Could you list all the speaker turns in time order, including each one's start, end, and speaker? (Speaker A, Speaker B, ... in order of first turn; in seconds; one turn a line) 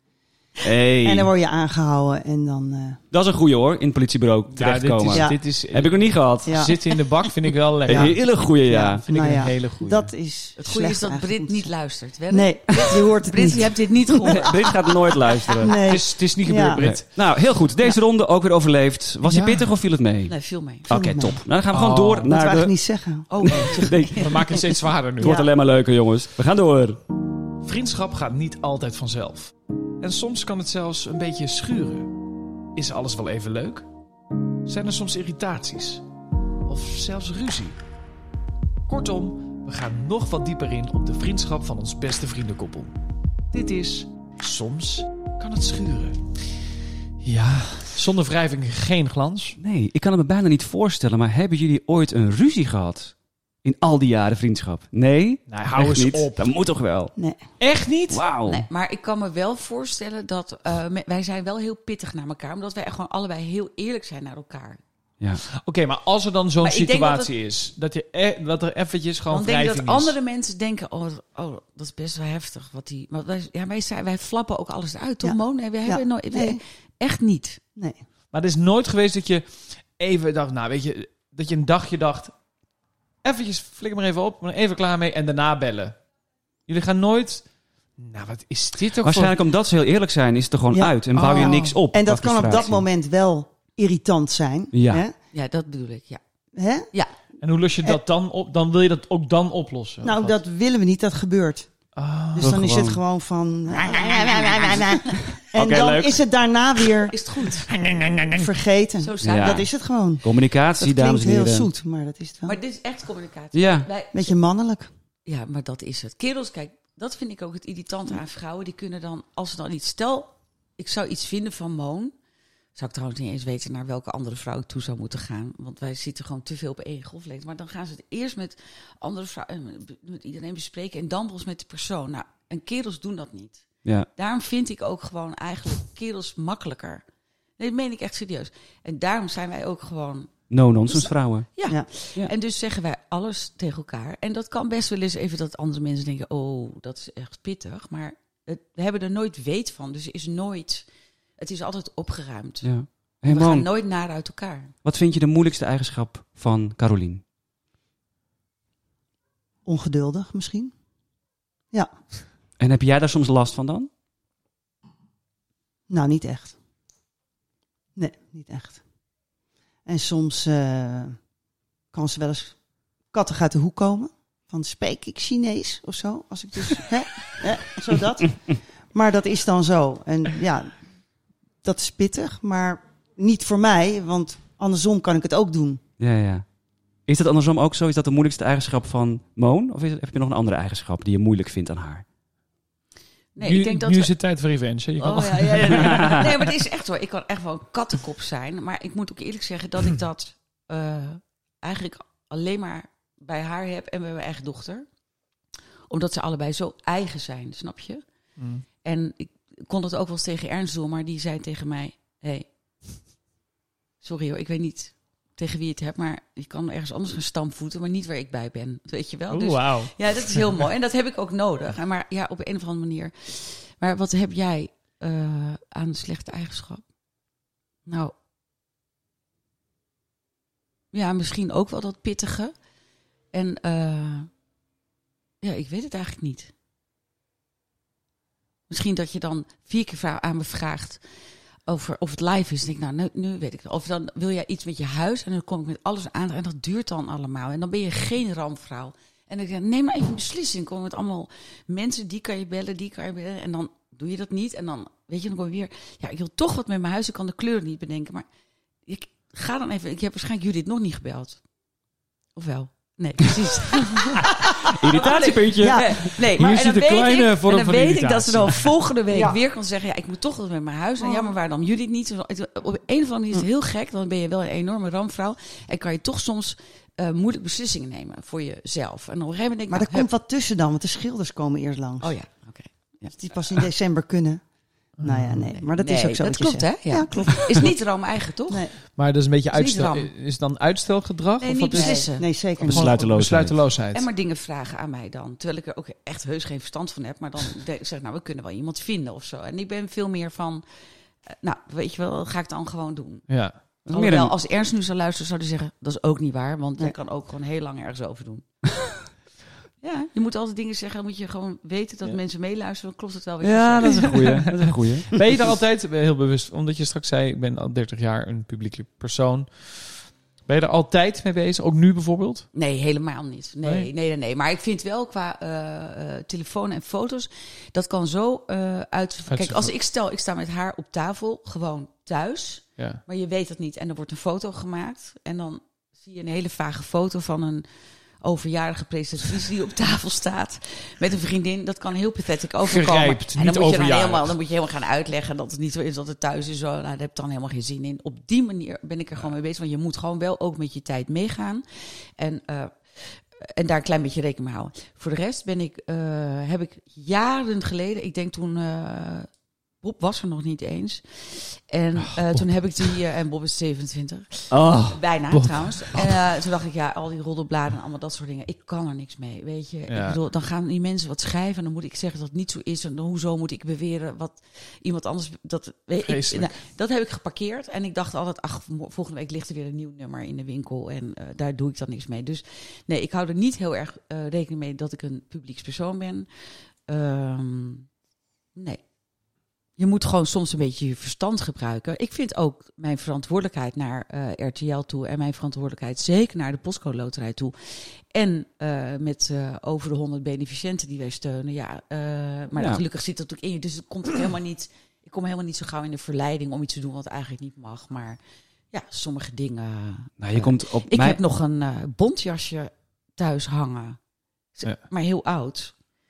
Speaker A: 0.6-1.3
Speaker B: 1.0-3.0
Speaker A: 3.1-6.7
Speaker C: 4.5-8.2
Speaker B: 5.1-5.4
Speaker B: 6.5-6.8
Speaker A: 7.9-9.0
Speaker B: 7.9-11.7
Speaker C: 8.7-10.1
Speaker D: 10.6-14.7
Speaker B: 12.3-14.5
Speaker A: 14.2-15.8
Speaker B: 15.6-16.9
Speaker C: 15.7-17.1
Speaker A: 16.8-20.4
Speaker C: 19.2-19.7
Speaker D: 20.3-20.9
Speaker A: 20.9-22.7
Speaker B: 20.9-21.4
Speaker C: 21.7-22.3
Speaker B: 22.2-23.7
Speaker D: 23.3-24.6
Speaker A: 23.4-24.3
Speaker C: 24.2-25.4
Speaker B: 25.2-25.5
Speaker A: 25.2-27.0
Speaker C: 27.6-32.1
Speaker C: 32.8-33.9
Speaker C: 34.7-36.0
Speaker C: 36.7-37.8
Speaker C: 38.9-42.9
Speaker C: 43.5-46.6
Speaker C: 47.2-49.6
Speaker A: 49.6-57.1
Speaker C: 55.5-56.5
Speaker C: 57.6-58.2
Speaker A: 58.1-58.6
Speaker D: 58.5-64.8
Speaker C: 65.5-70.2
Speaker D: 66.6-67.3
Speaker D: 69.3-77.6
Speaker B: 75.2-76.6
Speaker C: 78.3-82.3
Speaker C: 83.2-86.0
Speaker C: 86.7-87.4
Speaker C: 88.0-89.3
Speaker A: 89.0-92.8
Speaker B: 90.7-95.2
Speaker C: 91.2-91.6
Speaker A: 94.7-95.0
Speaker D: 95.3-96.2
Speaker B: 96.5-96.9
Speaker C: 97.4-100.4
Speaker B: 100.0-101.7
Speaker C: 102.0-102.6
Speaker B: 102.3-107.2
Speaker A: 102.4-103.0
Speaker D: 103.7-105.2
Speaker A: 105.4-106.2
Speaker D: 107.1-107.8
Speaker C: 107.7-108.5
Speaker B: 108.3-112.6
Speaker D: 109.0-109.7
Speaker A: 109.2-109.7
Speaker A: 110.2-111.7
Speaker D: 112.5-114.3
Speaker A: 113.5-113.9
Speaker B: 114.1-114.9
Speaker D: 115.3-122.1
Speaker D: 122.8-137.0
Speaker D: 137.6-140.4
Speaker A: 140.5-141.5
Speaker D: 140.9-150.9
Speaker D: 151.4-152.7
Speaker A: 152.6-153.7
Speaker D: 153.3-154.7
Speaker A: 154.8-157.2
Speaker B: 159.7-160.7
Speaker A: 162.6-163.9
Speaker B: 165.9-166.6
Speaker B: 167.9-168.8
Speaker B: 169.8-171.2
Speaker B: 171.9-172.6
Speaker B: 173.1-180.8
Speaker B: 181.6-185.8
Speaker A: 186.0-186.5
Speaker A: 187.1-192.0
Speaker D: 193.3-194.2
Speaker C: 193.4-196.5
Speaker D: 195.0-204.9
Speaker A: 195.7-196.2
Speaker D: 205.9-208.0
Speaker C: 208.4-208.6
Speaker D: 208.8-212.5
Speaker D: 214.0-226.8
Speaker C: 219.3-220.5
Speaker D: 227.9-228.1
Speaker D: 230.9-232.5
Speaker D: 233.3-234.3
Speaker D: 235.4-236.5
Speaker D: 238.7-241.0
Speaker D: 241.7-258.2
Speaker D: 258.9-261.4
Speaker D: 262.4-280.1
Speaker A: 264.6-266.4
Speaker B: 265.6-266.0
Speaker C: 266.2-268.7
Speaker B: 269.1-269.4
Speaker B: 271.0-271.4
Speaker B: 279.7-282.2
Speaker D: 282.0-283.1
Speaker B: 283.1-284.4
Speaker C: 285.0-285.5
Speaker B: 285.0-287.8
Speaker D: 285.5-288.7
Speaker B: 288.5-288.8
Speaker C: 289.0-294.1
Speaker D: 289.5-290.1
Speaker D: 291.4-292.3
Speaker B: 291.7-292.9
Speaker A: 292.6-293.6
Speaker D: 293.9-300.6
Speaker D: 301.3-303.3
Speaker C: 303.3-303.6
Speaker A: 303.9-304.3
Speaker D: 303.9-308.4
Speaker D: 309.8-314.4
Speaker A: 313.4-315.2
Speaker C: 313.8-322.5
Speaker D: 322.5-337.6
Speaker C: 329.3-329.7
Speaker D: 338.2-359.3
Speaker C: 342.6-344.3
Speaker D: 359.8-386.3
Speaker C: 362.0-362.4
Speaker A: 364.5-365.0
Speaker C: 365.3-366.2
Speaker C: 369.9-370.2
Speaker C: 376.1-376.5
Speaker D: 386.9-387.9
Speaker D: 388.6-388.8
Speaker D: 389.8-408.2
Speaker A: 402.6-402.8
Speaker D: 408.7-414.0
Speaker A: 410.2-411.2
Speaker D: 414.6-415.7